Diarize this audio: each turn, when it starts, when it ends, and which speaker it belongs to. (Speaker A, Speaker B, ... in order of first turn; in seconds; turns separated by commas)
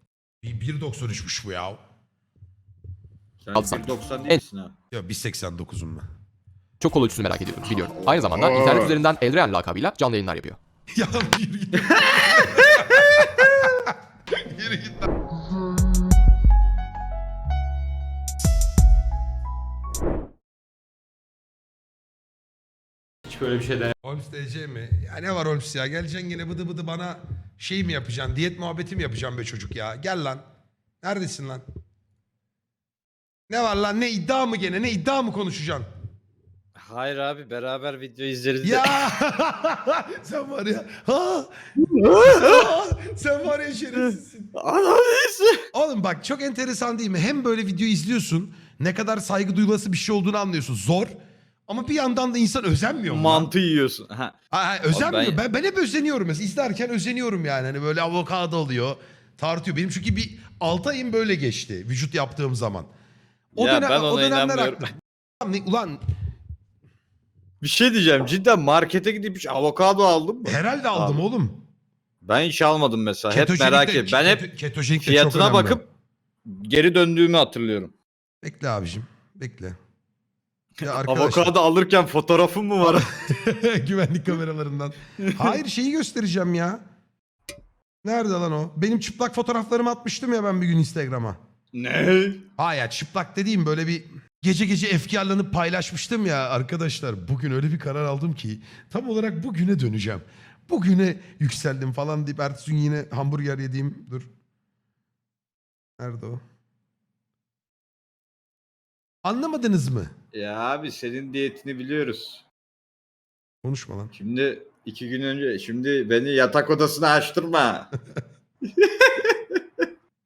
Speaker A: 0.4-1.8, Speaker B: 3.4-4.8, Speaker C: 3.5-4.4, Speaker A: 4.9-6.0, Speaker C: 6.8-10.6, Speaker B: 7.9-8.9, Speaker A: 10.9-15.1, Speaker B: 11.9-13.4, Speaker A: 24.0-30.4, Speaker A: 31.0-31.6, Speaker A: 33.5-35.9, Speaker B: 36.7-39.0, Speaker A: 38.6-41.5, Speaker B: 41.8-42.7, Speaker A: 42.1-44.5, Speaker B: 44.0-45.6, Speaker A: 45.7-51.1, Speaker A: 51.7-53.5, Speaker B: 53.1-54.4, Speaker A: 54.5-62.9, Speaker B: 54.9-55.4, Speaker B: 63.5-64.8, Speaker A: 63.5-64.9, Speaker A: 65.4-66.0, Speaker B: 67.6-71.2, Speaker A: 70.4-71.6, Speaker B: 72.2-74.4, Speaker A: 73.3-75.8, Speaker B: 75.0-75.9, Speaker B: 76.4-77.9, Speaker A: 78.4-79.8, Speaker B: 80.8-83.1, Speaker A: 80.8-81.5, Speaker A: 82.8-86.8, Speaker A: 88.0-91.4, Speaker B: 91.7-92.5, Speaker A: 92.6-104.3, Speaker A: 106.0-106.4, Speaker A: 109.2-110.1, Speaker B: 110.3-112.4, Speaker A: 113.6-114.1, Speaker B: 114.1-117.9, Speaker B: 118.6-119.8